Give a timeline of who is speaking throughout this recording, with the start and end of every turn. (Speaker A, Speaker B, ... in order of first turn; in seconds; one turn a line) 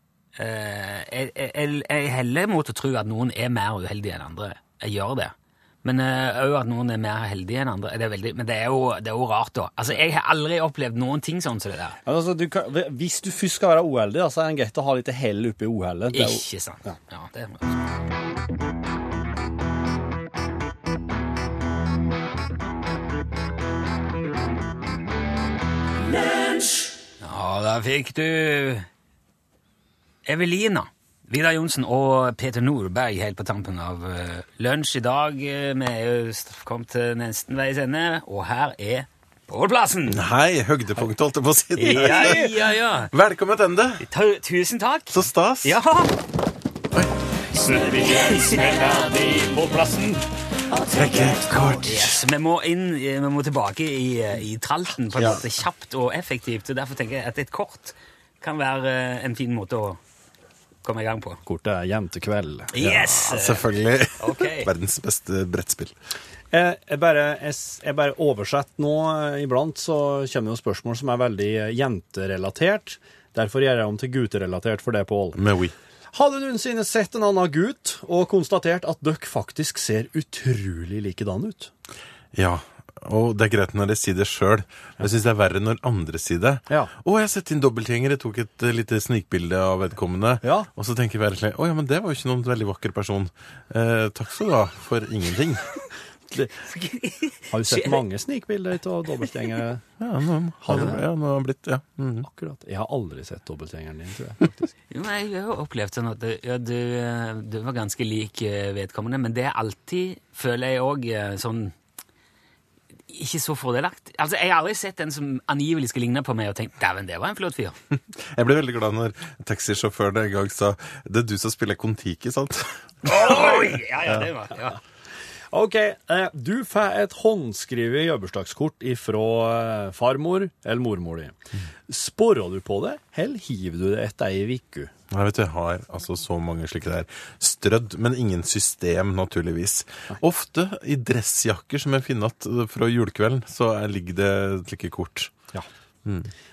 Speaker A: 0.4-5.3
Speaker A: 5.8-12.0
Speaker B: 12.1-16.9
Speaker A: 16.1-17.8
Speaker A: 27.2-28.9
Speaker A: 30.3-40.2
Speaker C: 40.1-42.5
Speaker A: 41.8-43.1
Speaker B: 41.9-42.4
Speaker C: 43.1-44.0
Speaker A: 44.0-46.1
Speaker C: 45.1-45.8
Speaker B: 47.5-50.3
Speaker A: 48.2-48.6
Speaker C: 50.9-52.2
Speaker A: 51.8-60.0
Speaker C: 55.1-55.4
Speaker A: 60.8-61.4
Speaker B: 61.4-62.7
Speaker A: 62.7-64.7
Speaker C: 62.8-65.9
Speaker B: 66.5-75.4
Speaker C: 75.3-75.7
Speaker B: 76.1-81.7
Speaker C: 82.3-95.7
Speaker B: 86.7-86.9
Speaker B: 90.4-90.7
Speaker A: 96.7-98.0
Speaker B: 97.5-99.9
Speaker C: 100.0-102.3
Speaker B: 100.6-101.0
Speaker B: 102.2-104.7
Speaker A: 104.9-111.7
Speaker A: 113.1-117.8
Speaker C: 118.2-123.1
Speaker A: 123.0-124.8
Speaker B: 125.5-131.3
Speaker B: 131.9-134.9
Speaker C: 135.1-145.5
Speaker C: 146.1-146.3